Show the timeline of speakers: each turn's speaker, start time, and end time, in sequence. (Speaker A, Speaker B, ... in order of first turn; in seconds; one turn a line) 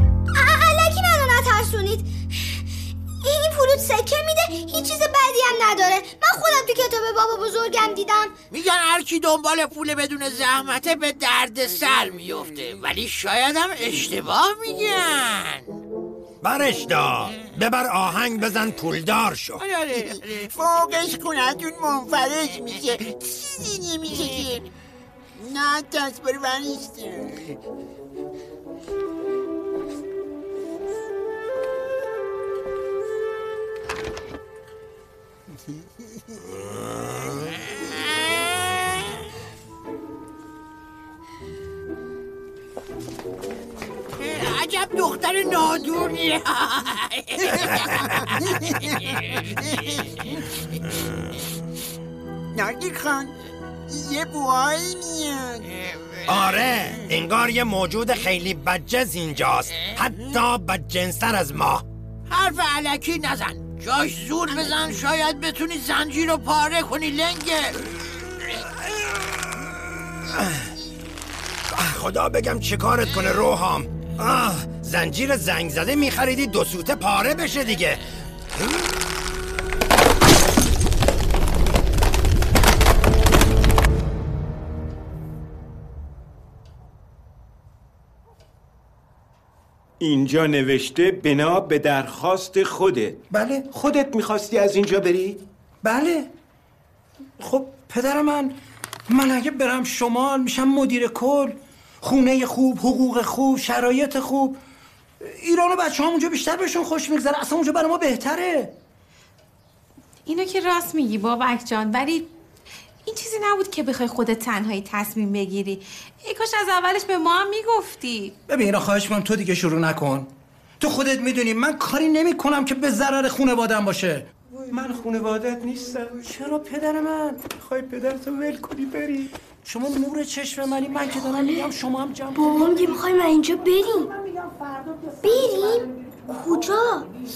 Speaker A: 0.3-2.6
Speaker A: 3.2-8.3
Speaker B: 8.5-15.7
Speaker C: 16.4-19.6
Speaker B: 19.6-20.5
Speaker D: 19.9-24.7
Speaker D: 25.4-27.5
Speaker B: 44.2-47.8
Speaker D: 52.5-53.3
Speaker D: 53.9-55.7
Speaker C: 56.3-61.9
Speaker B: 62.3-67.8
Speaker D: 64.5-64.9
Speaker C: 68.9-70.7
Speaker C: 71.7-78.0
Speaker E: 90.0-93.2
Speaker F: 93.3-93.8
Speaker E: 93.7-95.4
Speaker F: 95.8-96.3
Speaker F: 97.4-98.5
Speaker F: 99.1-104.6
Speaker F: 105.2-108.7
Speaker G: 110.3-112.3
Speaker G: 113.0-118.3
Speaker F: 118.5-124.3
Speaker E: 124.7-126.3
Speaker F: 126.2-127.6
Speaker E: 127.6-129.3
Speaker F: 129.6-132.6
Speaker H: 132.4-134.1
Speaker H: 135.2-137.1